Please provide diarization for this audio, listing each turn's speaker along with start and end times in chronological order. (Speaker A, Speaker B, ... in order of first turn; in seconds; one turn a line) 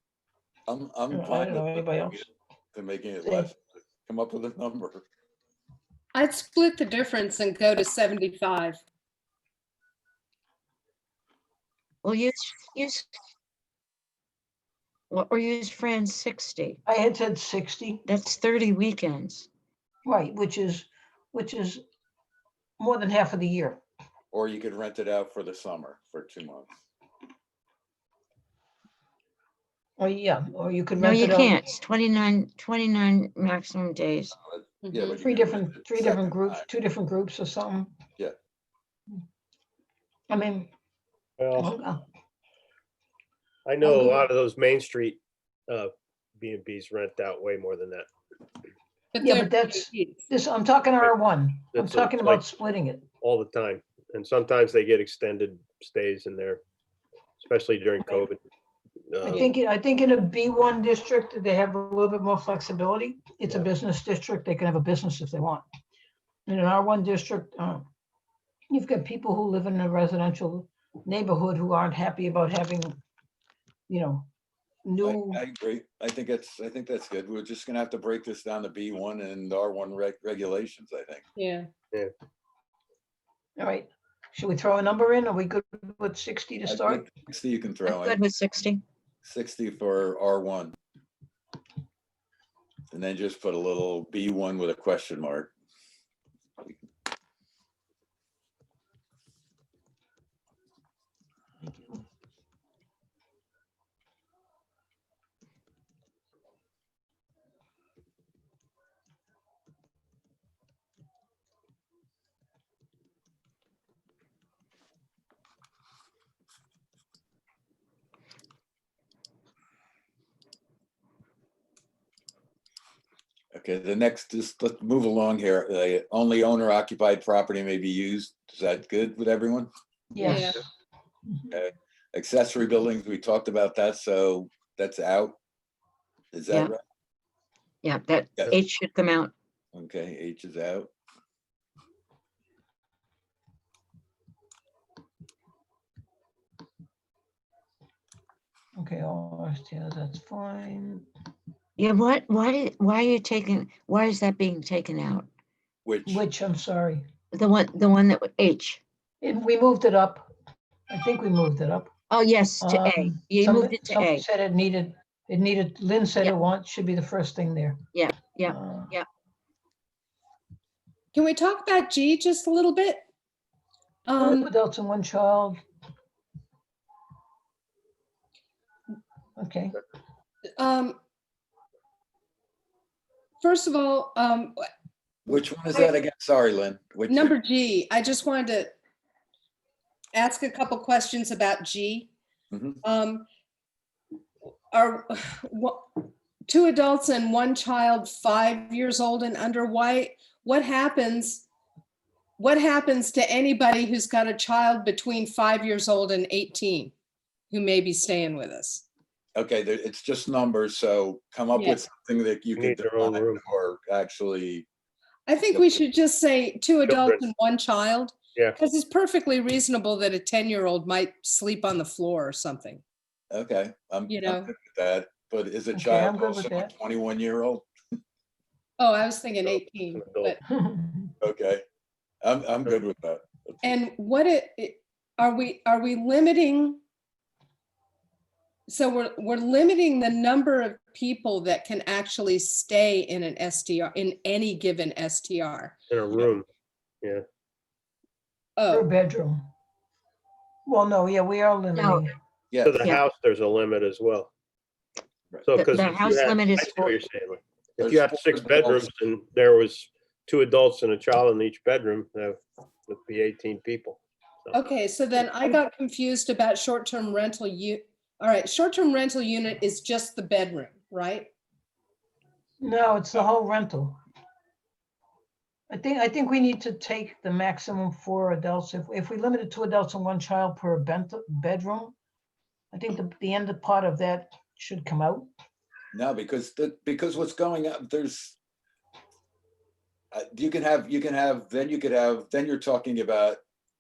Speaker A: 0.7-2.2
Speaker B: 1.1-2.3
Speaker A: 2.7-5.0
Speaker B: 3.2-3.5
Speaker C: 6.1-8.8
Speaker D: 12.0-13.1
Speaker D: 15.1-16.8
Speaker B: 16.9-18.1
Speaker D: 18.1-19.5
Speaker B: 20.1-21.8
Speaker B: 22.8-23.8
Speaker A: 24.3-26.7
Speaker B: 30.0-31.6
Speaker D: 31.0-34.4
Speaker A: 34.4-36.7
Speaker C: 34.8-35.2
Speaker B: 35.1-37.9
Speaker B: 40.3-40.7
Speaker E: 41.4-41.7
Speaker B: 41.5-42.0
Speaker E: 43.7-48.1
Speaker B: 43.8-44.2
Speaker C: 49.1-50.2
Speaker B: 49.2-53.0
Speaker E: 51.7-52.4
Speaker E: 53.2-56.6
Speaker E: 57.4-58.4
Speaker E: 59.1-59.5
Speaker B: 59.2-65.6
Speaker B: 66.5-67.9
Speaker B: 68.7-73.0
Speaker B: 73.9-74.3
Speaker B: 74.8-75.4
Speaker A: 75.0-81.2
Speaker C: 81.4-81.7
Speaker B: 83.6-87.1
Speaker A: 86.7-88.2
Speaker D: 87.9-88.8
Speaker A: 89.2-90.8
Speaker A: 92.9-95.5
Speaker A: 123.5-129.7
Speaker B: 130.1-130.6
Speaker D: 130.2-130.6
Speaker C: 130.2-130.6
Speaker B: 131.3-131.5
Speaker A: 131.5-135.4
Speaker A: 136.3-136.8
Speaker D: 137.8-139.3
Speaker A: 139.7-140.9
Speaker B: 148.8-151.1
Speaker D: 151.8-155.3
Speaker A: 155.8-156.2
Speaker B: 156.1-157.1
Speaker D: 157.3-158.8
Speaker B: 159.2-160.3
Speaker B: 160.9-161.9
Speaker D: 162.1-164.2
Speaker B: 162.6-167.8
Speaker D: 167.9-169.1
Speaker B: 168.5-168.9
Speaker C: 171.1-173.1
Speaker C: 174.1-174.5
Speaker B: 174.2-175.6
Speaker B: 179.4-179.8
Speaker C: 180.6-181.0
Speaker C: 183.4-184.6
Speaker A: 185.3-187.4
Speaker C: 185.7-186.0
Speaker C: 187.1-188.7
Speaker C: 190.1-192.1
Speaker A: 192.5-192.8
Speaker C: 192.8-193.3
Speaker C: 194.7-201.5
Speaker C: 202.4-206.9
Speaker C: 207.5-208.8
Speaker A: 209.3-214.7
Speaker C: 211.5-211.8
Speaker E: 212.6-213.4
Speaker C: 215.3-222.8
Speaker A: 215.5-215.8
Speaker E: 216.9-217.2
Speaker A: 223.3-227.7
Speaker C: 224.1-224.5
Speaker B: 225.7-226.7
Speaker C: 228.8-230.4
Speaker E: 229.5-230.4
Speaker B: 230.5-231.1
Speaker A: 231.2-231.6
Speaker A: 232.2-233.5
Speaker C: 233.6-236.8
Speaker C: 238.7-245.8
Speaker E: 245.9-246.5
Speaker C: 248.6-248.9
Speaker B: 248.7-249.5
Speaker B: 250.7-252.2
Speaker D: 251.8-252.1
Speaker A: 252.5-252.9
Speaker E: 252.6-254.3
Speaker D: 252.8-253.1
Speaker E: 255.5-264.6
Speaker D: 255.5-257.0
Speaker A: 257.8-258.9
Speaker C: 264.5-271.3
Speaker B: 272.6-274.0
Speaker B: 275.7-282.0
Speaker B: 282.7-285.3
Speaker A: 285.9-288.4
Speaker A: 290.1-293.4